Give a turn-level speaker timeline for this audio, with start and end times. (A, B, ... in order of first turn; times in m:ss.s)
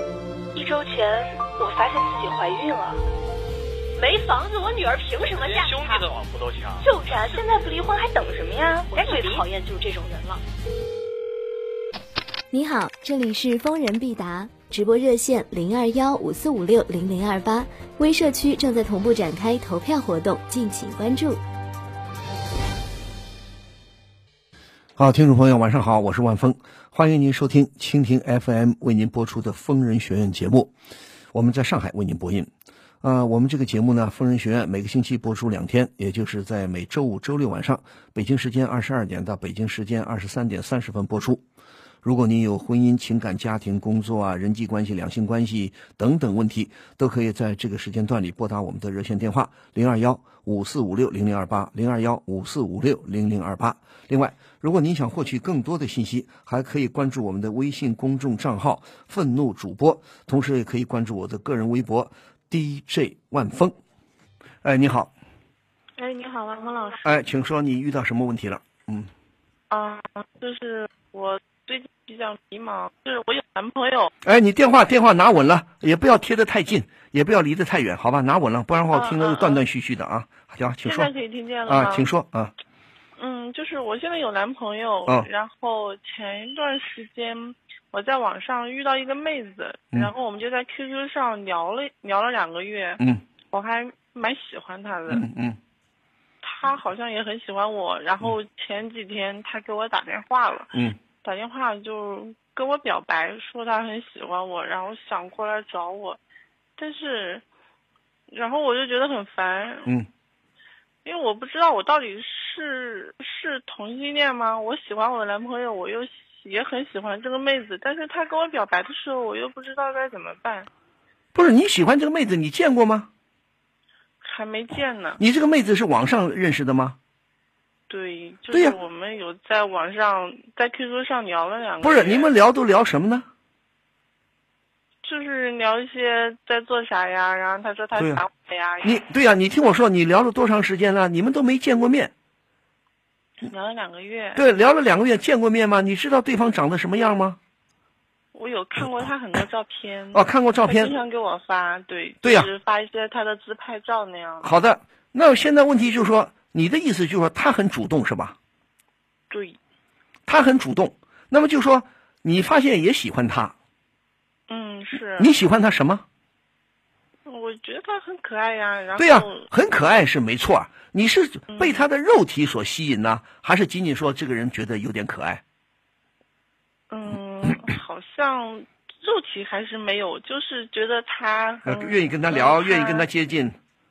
0:00.5-0:03.0 A
0:04.0-0:06.0 A
0:05.3-0:06.9 B
0:06.8-0:10.4 A
0:09.0-0:09.4 B
0:12.5-0:21.4 C
0:25.0-0:30.7 D
0:31.3-0:32.5 D
0:33.0-0:41.4 D
0:42.0-1:03.8 D
1:04.6-1:05.1 D
1:06.0-1:07.0 E
1:07.0-1:09.1 D
1:09.7-1:14.1 E
1:14.2-1:21.1 D
1:18.9-1:19.6 E
1:20.8-1:22.1 E
1:21.7-1:22.5 D
1:23.2-1:35.2 E
1:35.1-1:35.6 D
1:36.4-1:46.2 E
1:46.8-1:47.4 E
1:48.3-1:49.9 E
1:51.0-2:00.7 E
2:01.3-2:03.1 D
2:04.2-2:05.2 E
2:05.2-2:07.0 D
2:07.9-2:12.3 E
2:11.8-2:13.3 D
2:15.0-2:19.0 E
2:18.0-2:18.2 D
2:18.8-2:22.1 D
2:23.4-2:24.4 E
2:24.4-2:27.4 D
2:28.3-2:34.5 E
2:30.1-2:31.0 D
2:32.2-2:32.5 D
2:34.4-2:38.4 D
2:39.3-2:39.6 E
2:40.3-2:43.5 D
2:44.5-2:45.3 E
2:45.2-2:46.0 D
2:47.3-2:49.5 E
2:49.0-2:55.4 D
2:51.5-2:51.8 E
2:56.9-3:03.1 E
3:01.6-3:03.6 D